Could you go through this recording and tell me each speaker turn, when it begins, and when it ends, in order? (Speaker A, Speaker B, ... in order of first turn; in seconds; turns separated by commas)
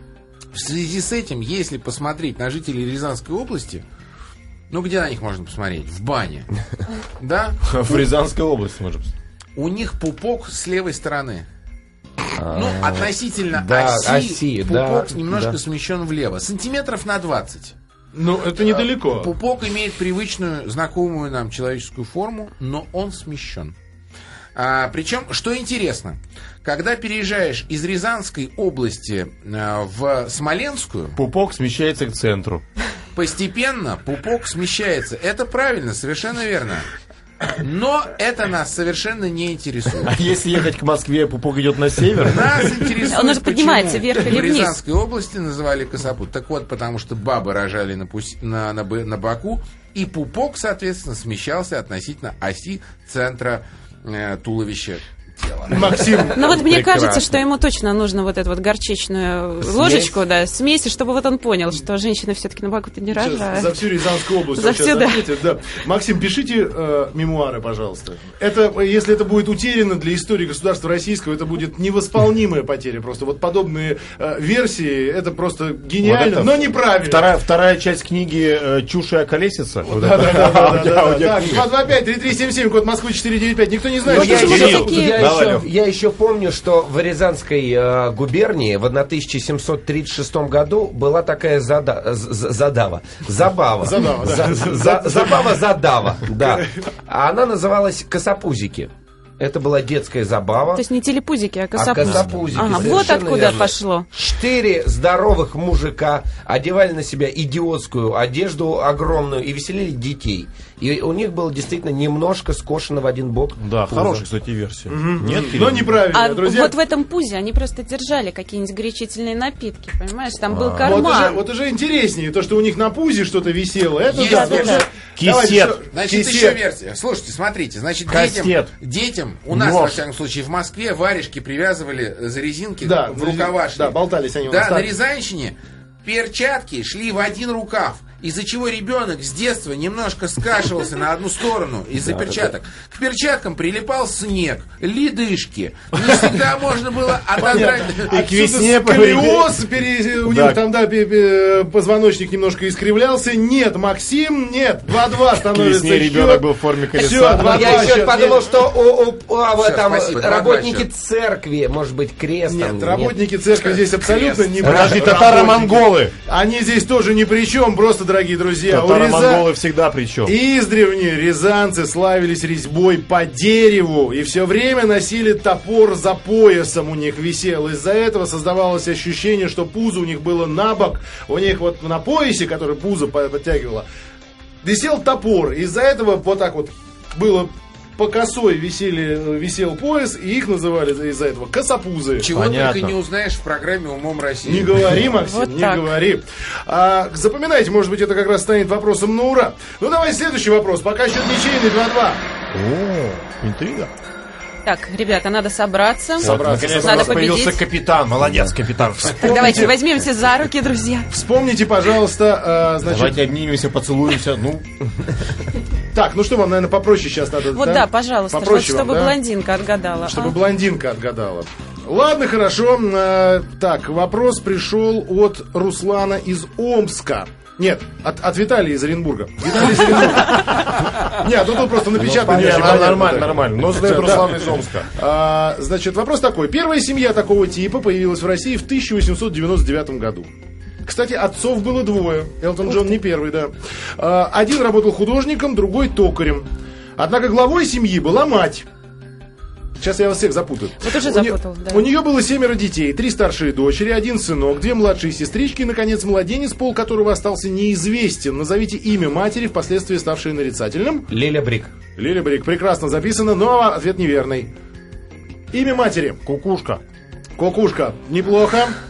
Speaker A: 0.5-3.8, Speaker A: 4.7-6.5, Speaker A: 7.2-8.0, Speaker B: 7.6-9.1, Speaker A: 9.6-11.4, Speaker C: 12.4-15.6, Speaker A: 12.5-17.7, Speaker D: 18.1-19.3, Speaker A: 18.6-23.7, Speaker A: 24.5-31.2, Speaker B: 31.1-32.6, Speaker A: 33.1-36.9, Speaker A: 37.5-40.1, Speaker B: 40.0-42.7, Speaker A: 42.2-56.3, Speaker E: 43.1-44.7, Speaker D: 55.7-56.6, Speaker E: 56.3-65.3, Speaker C: 56.4-57.4, Speaker C: 59.6-60.1, Speaker D: 63.1-77.2, Speaker B: 76.0-81.7, Speaker D: 79.9-84.9, Speaker C: 84.0-100.8, Speaker E: 84.1-85.3, Speaker B: 84.2-85.7, Speaker D: 93.8-95.6, Speaker E: 100.7-104.1, Speaker C: 101.7-114.2, Speaker B: 102.1-102.9, Speaker B: 113.6-116.0, Speaker D: 114.9-116.7, Speaker E: 116.1-121.4, Speaker B: 120.5-121.1, Speaker D: 120.8-126.6, Speaker A: 124.1-124.9, Speaker E: 124.1-124.9, Speaker B: 125.2-125.8, Speaker A: 125.9-148.2, Speaker B: 128.1-128.7, Speaker B: 129.5-130.0, Speaker D: 132.8-134.9, Speaker D: 147.4-158.5, Speaker B: 147.9-149.6, Speaker B: 150.2-150.6, Speaker B: 155.4-158.0, Speaker C: 157.3-163.2, Speaker A: 159.5-160.9, Speaker D: 162.4-169.5, Speaker A: 163.5-164.9, Speaker B: 164.6-166.1, Speaker B: 168.7-170.3, Speaker D: 170.2-183.8, Speaker D: 184.6-192.3, Speaker A: 192.2-195.0, Speaker B: 192.3-192.9, Speaker D: 194.4-202.2, Speaker E: 195.1-195.9, Speaker B: 202.5-203.9, Speaker E: 204.6-207.6, Speaker D: 206.2-207.3, Speaker B: 206.2-209.7, Speaker D: 209.2-209.8, Speaker E: 209.2-211.1, Speaker D: 211.1-213.2, Speaker B: 212.8-214.7, Speaker D: 215.9-219.2, Speaker E: 217.5-220.4, Speaker D: 220.0-240.3, Speaker C: 231.9-233.2, Speaker B: 232.0-234.9, Speaker D: 240.8-246.4, Speaker D: 247.0-248.7, Speaker D: 249.8-261.1, Speaker E: 250.8-251.9, Speaker C: 261.1-261.7, Speaker D: 261.9-264.5, Speaker D: 265.5-266.2, Speaker B: 266.2-266.8, Speaker D: 267.4-268.8